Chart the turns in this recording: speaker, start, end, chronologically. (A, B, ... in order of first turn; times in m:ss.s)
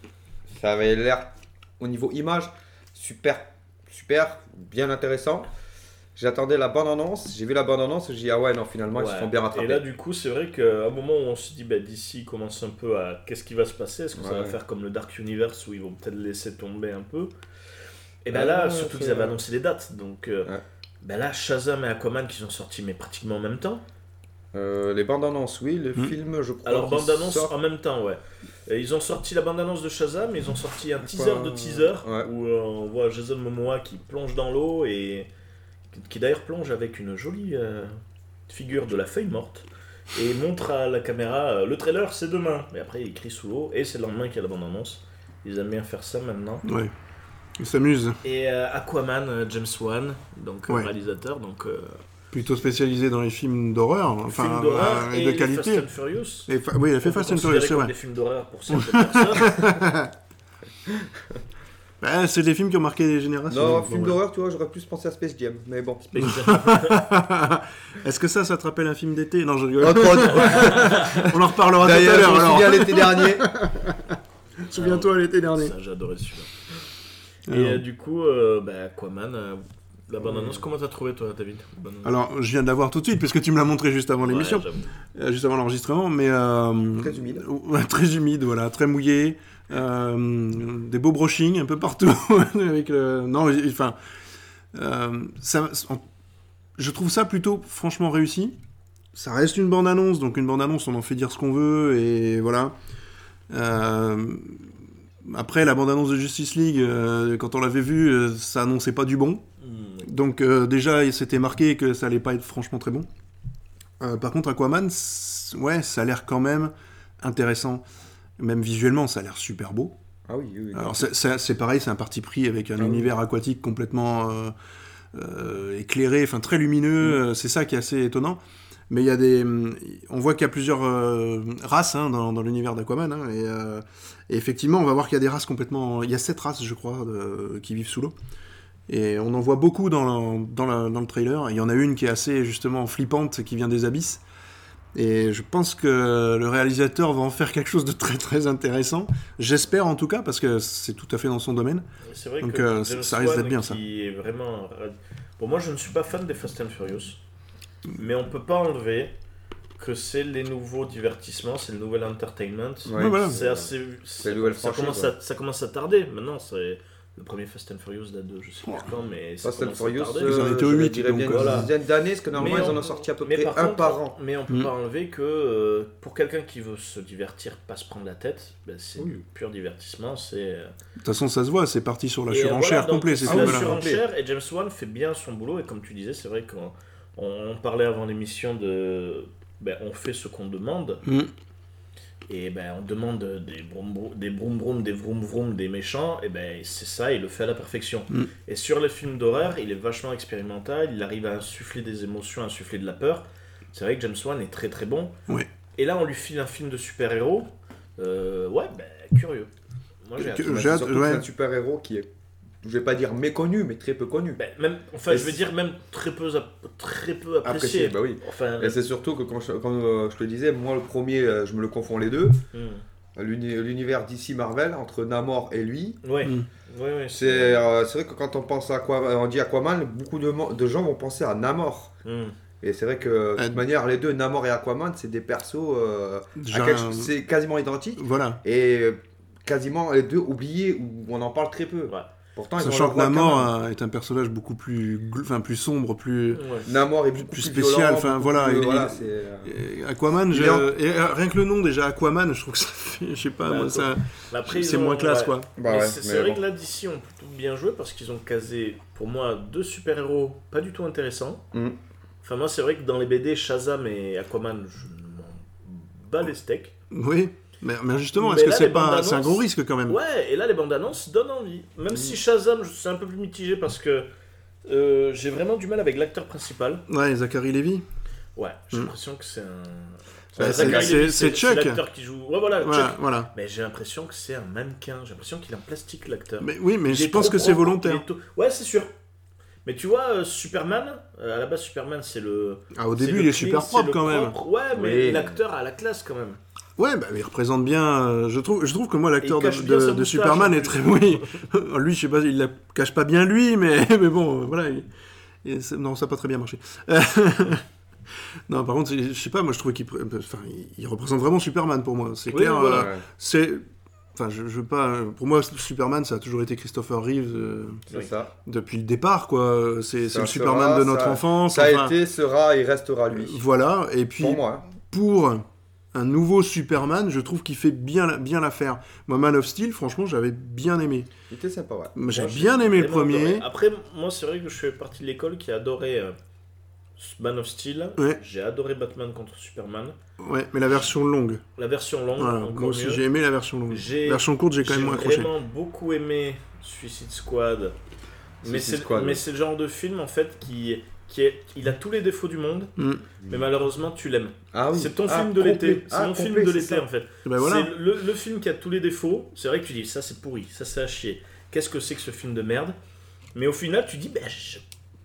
0:00.5-0:05.5 A
0:06.2-0:09.8 A
0:09.0-0:17.3 B
0:14.2-0:14.6 A
0:18.2-0:20.5 B
0:18.3-0:19.4 A
0:21.0-0:23.8 B
0:24.5-0:27.5 A
0:26.6-0:35.3 B
0:31.0-0:32.3 A
0:35.9-0:38.0 B
0:38.5-0:46.6 B
0:46.6-0:46.9 C
0:47.6-0:48.2 C
0:48.2-0:52.0 B
0:52.3-0:55.9 C
0:54.3-0:56.5 B
0:56.5-0:57.9 C
0:57.0-0:59.7 B
0:58.7-1:00.1 C
1:02.0-1:04.2 C
1:03.5-1:06.1 A
1:06.1-1:07.1 B
1:06.2-1:14.2 C
1:09.8-1:11.1 A
1:10.4-1:11.2 B
1:11.7-1:13.5 A
1:14.7-1:15.7 C
1:14.7-1:16.5 B
1:17.5-1:17.8 C
1:17.5-1:22.2 B
1:20.2-1:20.6 A
1:22.0-1:34.0 C
1:24.2-1:24.9 B
1:27.0-1:27.5 A
1:34.7-1:36.0 C
1:36.8-1:38.6 C
1:39.1-1:42.8 C
1:43.5-1:44.7 C
1:45.2-1:49.4 C
1:49.6-1:50.1 B
1:50.0-1:53.1 C
1:54.0-1:57.8 C
1:58.4-2:00.0 C
2:00.3-2:01.1 A
2:00.7-2:04.5 C
2:02.8-2:03.1 A
2:05.1-2:08.4 C
2:08.9-2:18.1 C
2:18.9-2:24.2 C
2:25.0-2:31.9 C
2:32.0-2:37.2 B
2:32.4-2:33.8 C
2:38.0-2:39.1 B
2:39.8-2:50.4 B
2:42.8-2:45.2 A
2:43.0-2:43.4 C
2:49.4-2:54.2 A
2:50.2-2:51.7 C
2:51.3-2:51.7 B
2:52.4-3:00.7 B
2:52.4-2:52.7 C
3:01.0-3:03.7 C
3:02.3-3:11.0 B
3:03.3-3:04.0 A
3:11.0-3:11.3 C
3:12.3-3:25.2 B
3:25.8-3:29.5 B
3:30.0-3:30.5 B
3:30.2-3:31.2 C
3:30.2-3:32.1 A
3:32.6-3:34.4 A
3:34.4-3:38.8 B
3:35.1-3:35.4 A
3:37.4-3:42.4 A
3:42.5-3:42.8 B
3:43.2-3:46.0 A
3:46.0-3:47.6 B
3:47.1-3:51.9 A
3:52.0-3:52.4 B
3:52.6-4:03.5 A
3:53.4-3:53.6 C
3:56.4-3:57.1 C
3:58.0-3:58.4 C
4:02.6-4:06.4 C
4:06.3-4:06.7 B
4:06.7-4:09.5 A
4:07.2-4:15.5 C
4:10.3-4:10.7 A
4:13.5-4:21.4 B
4:15.6-4:16.4 A
4:22.2-4:26.8 B
4:26.9-4:30.0 C
4:28.2-4:34.1 B
4:31.9-4:32.2 A
4:34.7-4:36.8 B
4:36.9-4:37.8 C
4:38.4-4:48.9 B
4:40.4-4:41.0 A
4:40.4-4:41.8 C
4:42.6-4:43.3 C
4:46.4-4:48.0 C
4:49.6-4:56.4 B
4:52.8-4:54.4 C
4:54.7-4:55.4 A
4:56.8-5:04.9 C
4:59.2-5:01.4 B
5:05.4-5:07.6 C
5:08.5-5:13.6 C
5:12.3-5:12.9 B
5:12.7-5:13.0 A
5:14.2-5:17.8 C
5:17.9-5:18.3 A
5:18.5-5:22.0 C
5:20.0-5:23.4 A
5:23.1-5:31.1 C
5:24.2-5:24.6 A
5:31.3-5:32.0 A
5:32.0-5:33.5 C
5:32.1-5:36.2 B
5:37.0-5:40.0 B
5:40.2-5:41.4 C
5:41.6-5:43.0 B
5:42.2-5:45.3 C
5:43.7-5:47.8 B
5:48.4-5:49.2 A
5:48.4-5:52.7 B
5:52.8-5:53.0 C
5:53.2-6:02.8 B
5:54.5-5:56.9 A
5:57.2-5:57.7 C
6:03.4-6:04.6 B